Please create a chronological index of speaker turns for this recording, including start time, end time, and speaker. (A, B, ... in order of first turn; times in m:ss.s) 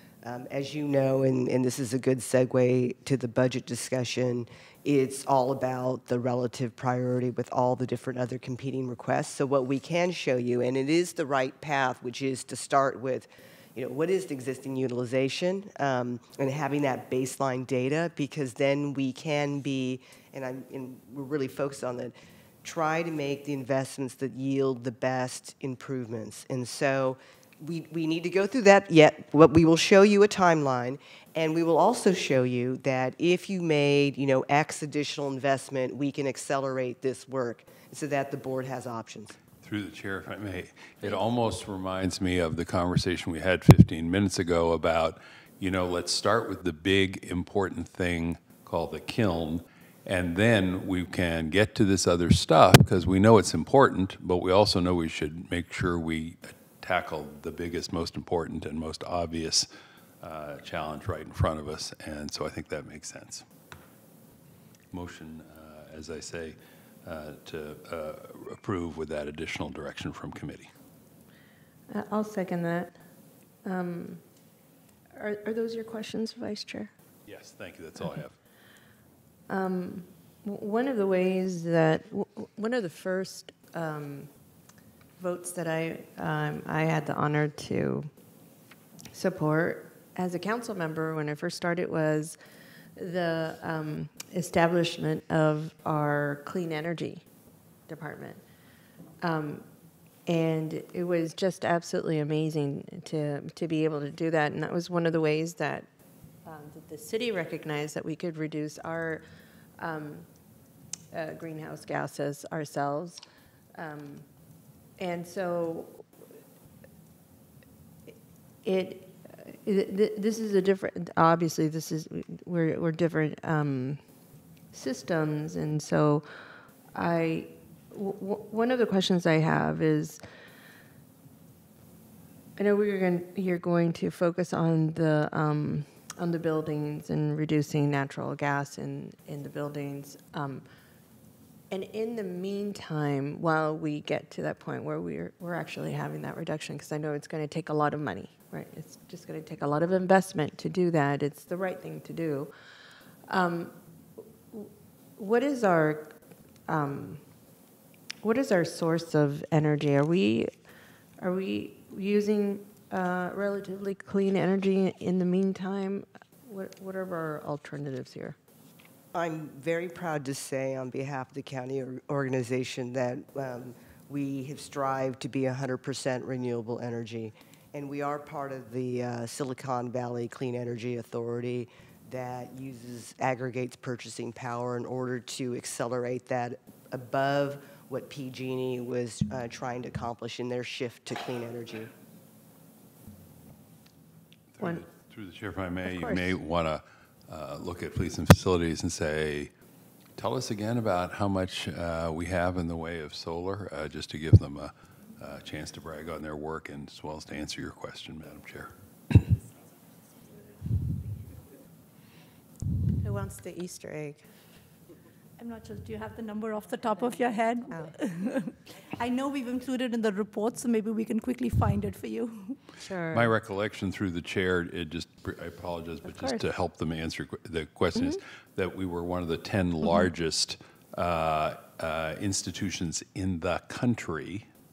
0:00.2-0:39.4 A
0:39.6-0:59.7 B
1:00.2-1:03.4 B
1:04.9-1:10.7 B
1:11.9-1:13.0 C
1:13.6-1:14.2 C
1:15.2-1:16.9 C
1:17.2-1:18.4 B
1:19.5-1:24.3 C
1:25.2-1:28.1 C
1:29.1-1:32.4 C
1:33.0-1:37.2 C
1:37.9-1:38.4 C
1:39.2-1:39.6 C
1:40.2-1:45.9 C
1:46.4-1:49.2 C
1:49.8-1:50.3 C
1:51.1-1:53.2 C
1:53.7-1:54.2 C
1:55.0-1:56.0 C
1:58.6-2:04.0 C
2:04.7-2:06.2 C
2:06.9-2:10.2 C
2:12.6-2:20.6 C
2:21.7-2:32.5 C
2:33.3-2:33.7 C
2:34.5-2:36.1 C
2:36.7-2:37.2 C
2:38.2-2:40.5 C
2:41.2-2:48.4 C
2:49.1-3:11.9 A
3:14.6-3:19.5 B
3:14.6-3:14.8 C
3:15.8-3:16.4 C
3:20.2-3:29.3 B
3:33.0-3:34.2 C
3:35.4-3:42.6 D
3:37.7-3:38.0 C
3:42.8-3:43.3 C
3:43.1-3:54.5 B
3:46.0-3:46.4 C